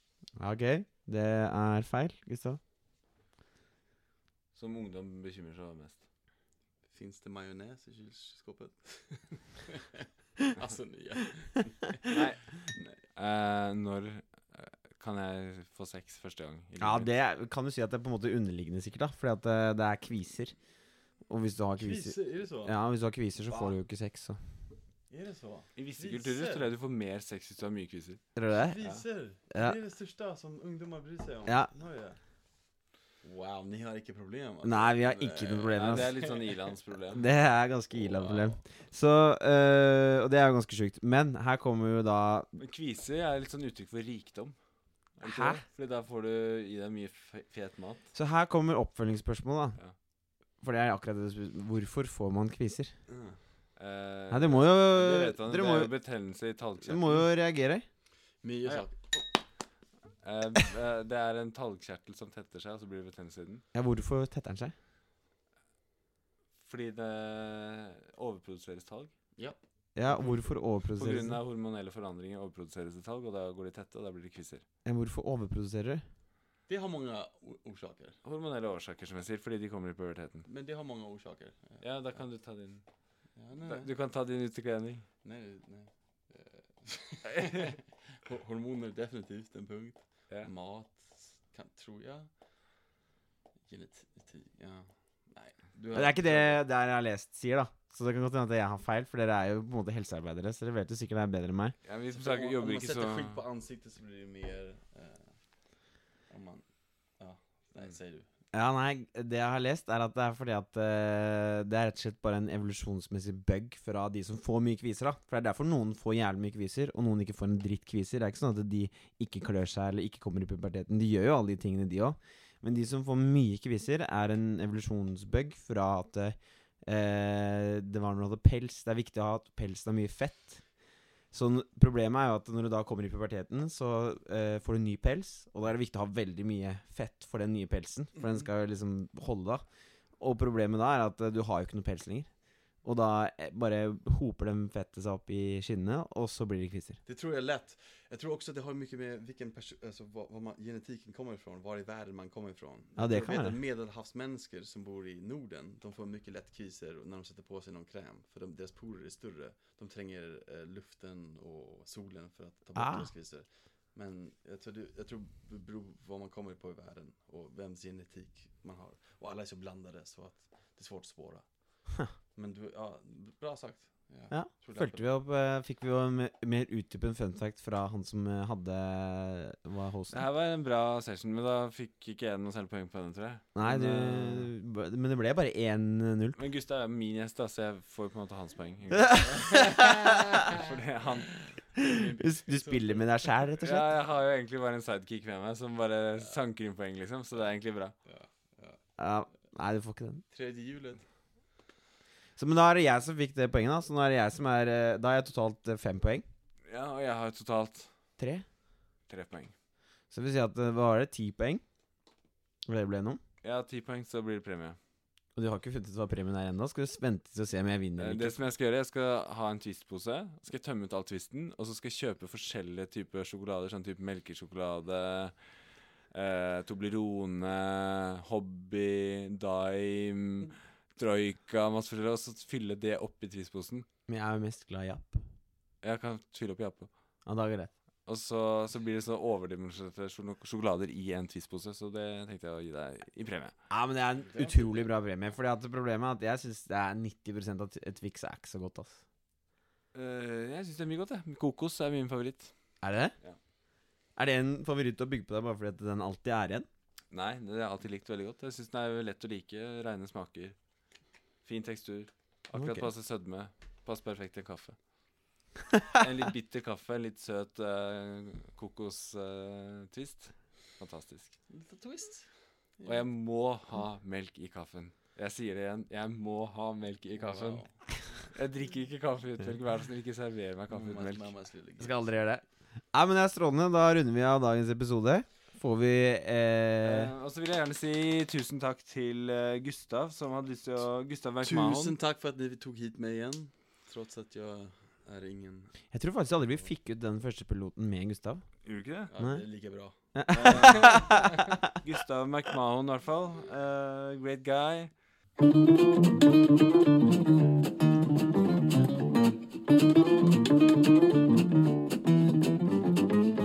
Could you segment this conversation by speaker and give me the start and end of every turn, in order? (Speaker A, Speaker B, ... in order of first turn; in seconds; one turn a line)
Speaker A: 0.4-2.6
Speaker B: 4.5-6.0
Speaker C: 6.9-13.0
Speaker B: 12.1-12.4
Speaker B: 13.1-17.1
Speaker A: 16.8-20.5
Speaker A: 21.3-24.4
Speaker C: 21.8-22.8
Speaker C: 23.5-23.8
Speaker C: 25.1-26.7
Speaker B: 25.8-28.2
Speaker A: 28.4-28.8
Speaker C: 28.5-32.2
Speaker A: 29.5-29.8
Speaker C: 33.2-36.5
Speaker A: 34.6-36.1
Speaker B: 35.8-37.2
Speaker A: 37.1-42.5
Speaker C: 37.9-38.6
Speaker B: 42.6-44.5
Speaker B: 45.2-48.0
Speaker A: 45.2-45.6
Speaker A: 48.1-49.8
Speaker A: 50.6-52.9
Speaker C: 53.1-53.4
Speaker B: 53.8-57.2
Speaker A: 54.3-55.9
Speaker A: 56.8-57.8
Speaker C: 58.4-59.2
Speaker B: 60.2-63.6
Speaker A: 63.7-64.7
Speaker B: 66.6-69.1
Speaker A: 70.0-71.4
Speaker B: 70.9-74.6
Speaker A: 74.8-76.0
Speaker C: 76.7-78.2
Speaker B: 78.2-80.5
Speaker C: 80.5-81.8
Speaker B: 81.8-82.8
Speaker C: 83.3-83.9
Speaker B: 83.6-85.0
Speaker C: 85.2-92.3
Speaker C: 93.7-96.6
Speaker A: 95.9-101.8
Speaker B: 101.8-103.4
Speaker C: 102.1-105.3
Speaker C: 106.3-106.6
Speaker C: 107.2-108.3
Speaker A: 108.5-130.6
Speaker A: 131.3-139.6
Speaker A: 140.2-142.3
Speaker A: 142.8-147.0
Speaker C: 147.1-171.4
Speaker A: 153.0-153.6
Speaker A: 162.8-163.1
Speaker C: 172.3-175.1
Speaker A: 174.3-180.2
Speaker B: 180.1-184.5
Speaker A: 183.5-186.4
Speaker B: 186.3-191.3
Speaker A: 188.9-190.4
Speaker C: 191.8-193.3
Speaker A: 191.8-193.8
Speaker B: 193.6-197.9
Speaker C: 198.1-198.8
Speaker A: 199.0-200.2
Speaker C: 200.3-201.0
Speaker A: 202.4-206.2
Speaker B: 206.7-207.9
Speaker A: 208.2-208.4
Speaker B: 209.1-209.5
Speaker A: 210.1-211.6
Speaker A: 212.7-213.2
Speaker B: 213.4-214.8
Speaker A: 215.3-218.3
Speaker B: 218.0-225.3
Speaker B: 226.1-233.8
Speaker A: 234.1-235.2
Speaker B: 235.8-236.9
Speaker A: 237.2-237.7
Speaker B: 238.1-243.5
Speaker A: 243.7-249.0
Speaker C: 244.3-244.9
Speaker B: 249.9-252.5
Speaker A: 252.8-253.1
Speaker A: 254.2-256.7
Speaker B: 257.1-260.6
Speaker B: 261.4-264.8
Speaker A: 262.5-262.9
Speaker B: 266.0-271.4
Speaker C: 271.5-272.2
Speaker C: 272.8-273.1
Speaker B: 272.8-277.6
Speaker C: 277.2-277.7
Speaker B: 278.3-281.3
Speaker C: 280.7-282.1
Speaker A: 281.8-287.1
Speaker B: 286.8-292.0
Speaker C: 291.4-295.7
Speaker A: 295.9-298.4
Speaker B: 298.6-299.1
Speaker C: 299.1-299.9
Speaker A: 300.1-301.6
Speaker B: 300.3-301.2
Speaker C: 300.5-301.2
Speaker B: 301.8-304.9